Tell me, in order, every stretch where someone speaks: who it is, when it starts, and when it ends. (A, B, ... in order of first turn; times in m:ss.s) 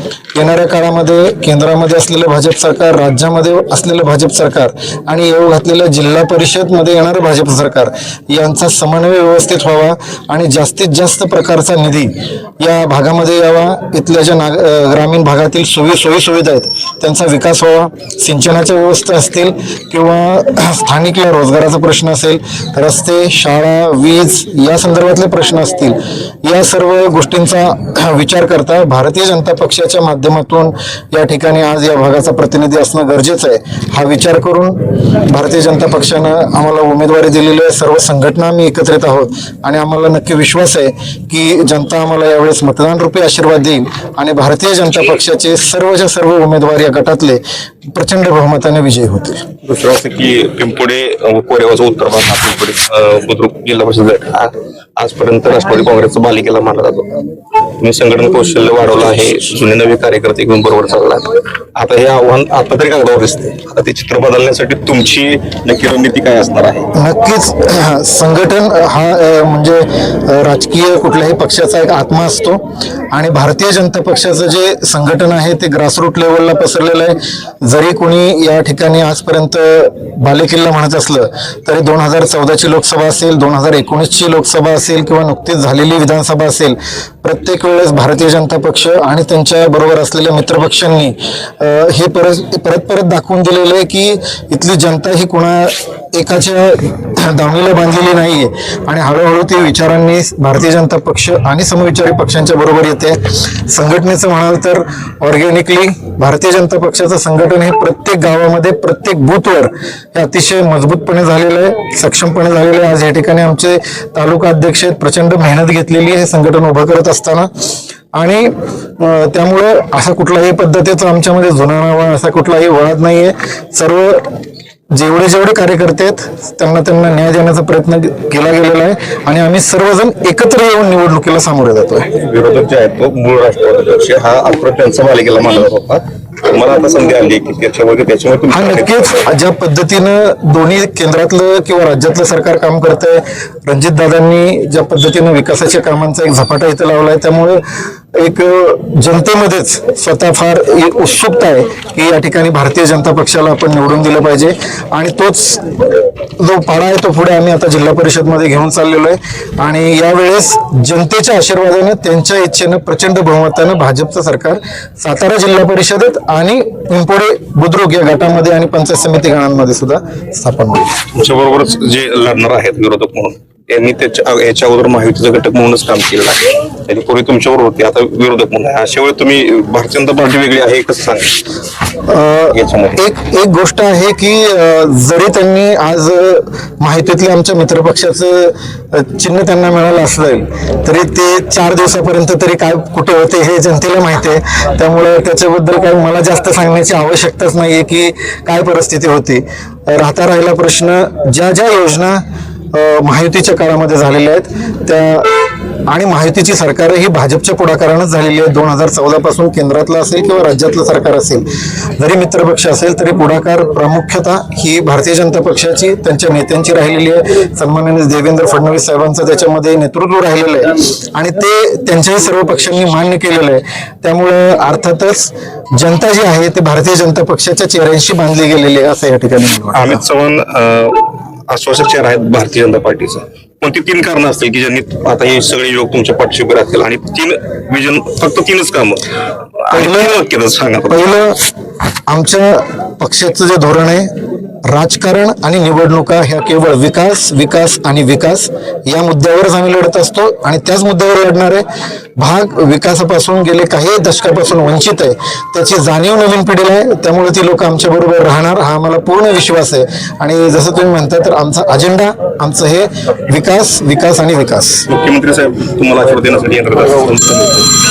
0:00.3-0:47.4 A
0:47.9-0:49.4 A
0:49.6-0:57.2 B
0:57.8-1:06.8 B
1:06.9-1:57.5 A
1:58.1-2:04.3 A
2:04.9-2:12.1 A
2:12.1-2:19.2 B
2:18.5-2:27.6 A
2:28.2-2:50.9 A
2:51.1-3:01.4 B
3:02.1-3:50.0 A
3:02.5-3:03.0 B
3:49.7-3:59.1 B
3:59.6-4:01.1 B
3:59.7-4:00.1 A
4:00.9-4:01.5 A
4:02.1-4:04.1 A
4:04.7-4:11.6 A
4:12.2-4:24.9 A
4:24.9-4:27.7 B